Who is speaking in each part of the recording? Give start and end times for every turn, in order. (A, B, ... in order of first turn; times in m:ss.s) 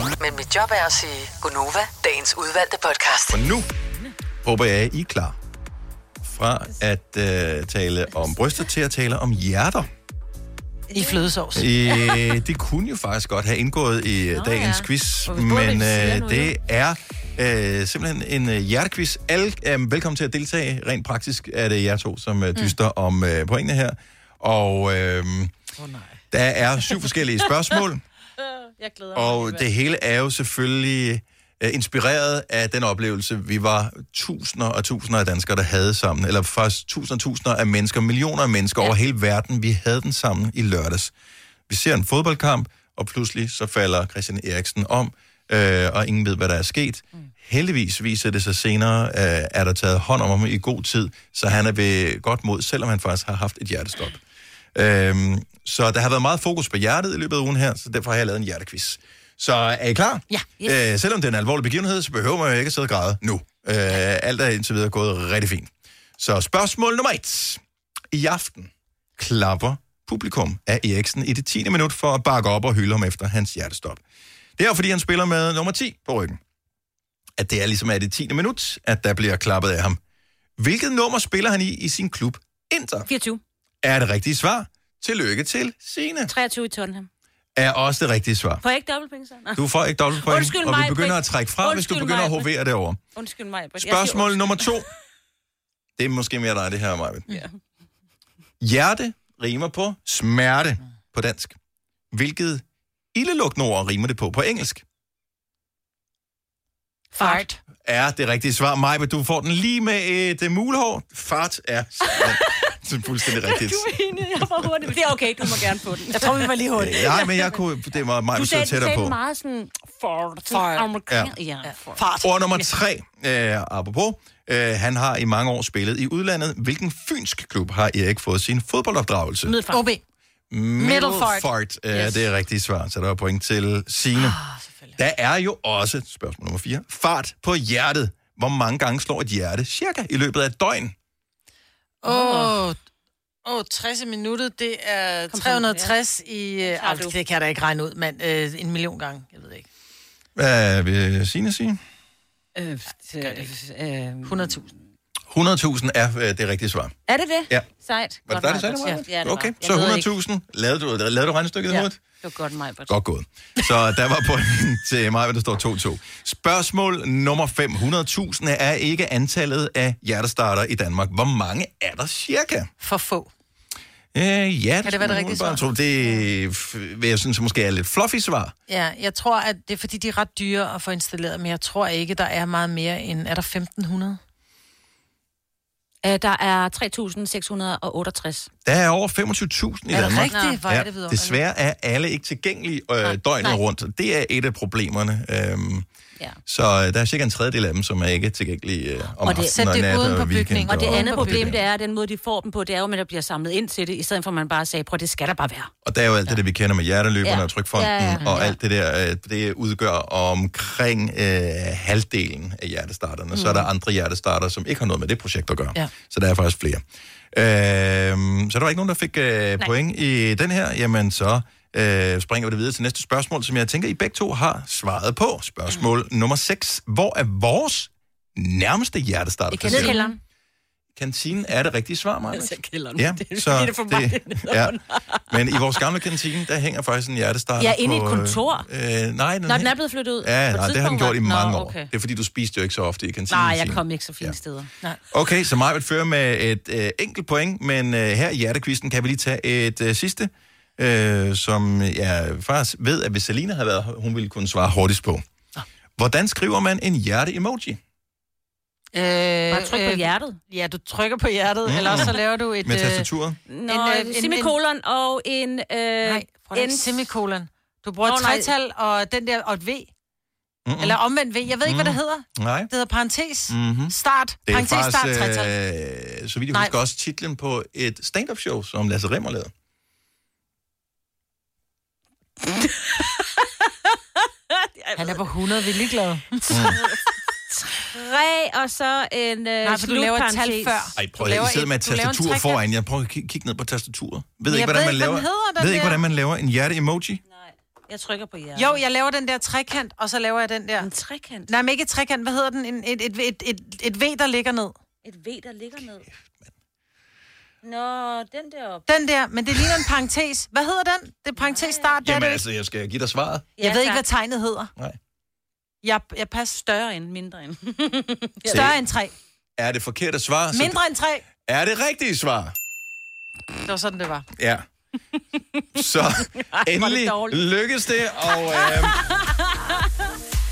0:00.2-0:03.4 A
0:03.3-0:03.7 B
0:04.4-0:05.4 B
0:06.2-0:09.9 B
0:10.9-0:11.2 C
0:10.9-0:11.7 D
0:11.6-0:25.5 B
0:14.4-0:16.5 C
0:25.8-0:26.1 D
0:26.3-0:28.0 B
0:28.4-0:29.6 C
0:29.2-0:41.1 B
0:41.7-0:54.2 B
0:54.8-1:07.6 B
1:08.1-1:14.0 B
1:14.6-1:16.4 B
1:17.4-1:20.0 B
1:20.6-1:23.1 B
1:23.1-1:23.4 C
1:23.8-1:26.3 B
1:26.3-1:27.1 C
1:27.6-1:28.6 B
1:28.6-1:29.6 C
1:29.6-1:33.0 B
1:30.2-1:32.5 C
1:33.2-1:34.8 C
1:33.8-1:34.9 B
1:36.0-1:37.3 B
1:37.3-1:37.6 C
1:38.6-1:41.6 B
1:42.1-1:42.6 B
1:43.1-1:44.8 B
1:47.2-1:47.6 D
1:47.2-1:47.5 C
1:47.8-1:54.8 B
1:53.5-1:54.7 D
1:54.3-1:56.5 C
1:56.1-1:57.2 D
1:56.8-1:59.2 B
1:57.1-1:57.5 C
1:58.4-2:02.0 C
2:00.5-2:00.9 D
2:01.6-2:02.7 D
2:02.2-2:09.6 B
2:09.5-2:09.8 C
2:09.7-2:10.0 D
2:10.5-2:14.4 B
2:10.8-2:12.0 D
2:14.2-2:15.0 D
2:15.0-2:21.0 B
2:22.0-2:22.8 D
2:22.1-2:22.6 C
2:23.4-2:29.7 D
2:25.3-2:26.0 C
2:26.6-2:27.2 C
2:30.4-2:31.8 B
2:32.6-2:34.6 C
2:32.6-2:33.5 D
2:34.2-2:34.7 D
2:35.3-2:37.0 B
2:37.1-2:40.1 C
2:38.3-2:42.0 B
2:41.8-2:42.9 C
2:42.9-2:52.7 B
2:52.8-2:53.3 D
2:54.1-2:58.5 B
2:54.8-2:55.8 D
2:58.7-3:04.2 D
3:06.0-3:08.5 C
3:08.6-3:15.9 B
3:09.9-3:11.4 D
3:10.3-3:10.6 C
3:16.5-3:21.6 B
3:19.2-3:19.5 C
3:19.3-3:21.6 D
3:20.6-3:25.7 C
3:25.8-3:36.8 B
3:27.2-3:28.6 C
3:33.3-3:33.7 C
3:37.3-3:50.0 B
3:49.5-3:50.2 D
3:49.7-3:50.2 C
3:51.0-3:54.8 B
3:52.3-3:55.8 C
3:55.3-4:04.4 B
3:57.6-3:58.7 C
3:59.5-4:01.9 C
4:03.3-4:04.7 C
4:05.1-4:15.2 B
4:16.0-4:17.8 B
4:18.9-4:23.1 D
4:19.5-4:20.4 C
4:21.7-4:23.4 B
4:21.9-4:22.1 C
4:23.5-4:27.1 C
4:23.7-4:24.6 D
4:26.0-4:29.9 D
4:28.0-4:28.5 C
4:30.6-4:32.7 B
4:30.8-4:35.5 D
4:33.5-4:34.0 B
4:34.5-4:39.5 B
4:42.6-4:43.1 C
4:44.5-4:45.2 C
4:45.0-4:46.5 D
4:46.4-4:51.0 C
4:46.5-4:46.8 B
4:49.6-4:52.6 D
4:51.0-4:57.2 B
4:54.5-4:56.0 D
4:57.3-4:58.8 C
4:58.6-5:00.9 D
5:00.8-5:01.5 C
5:01.5-5:04.8 D
5:05.0-5:06.1 C
5:07.6-5:08.9 C
5:08.9-5:12.4 D
5:11.4-5:12.0 C
5:12.0-5:13.5 B
5:13.6-5:14.0 C
5:13.6-5:14.7 D
5:15.8-5:16.6 D
5:16.5-5:18.7 C
5:18.5-5:18.8 B
5:18.5-5:19.1 D
5:19.6-5:20.8 B
5:20.5-5:21.2 D
5:21.5-5:22.6 B
5:23.7-5:24.3 D
5:24.4-5:24.6 B
5:25.8-5:29.0 B
5:26.3-5:27.5 C
5:28.5-5:29.9 C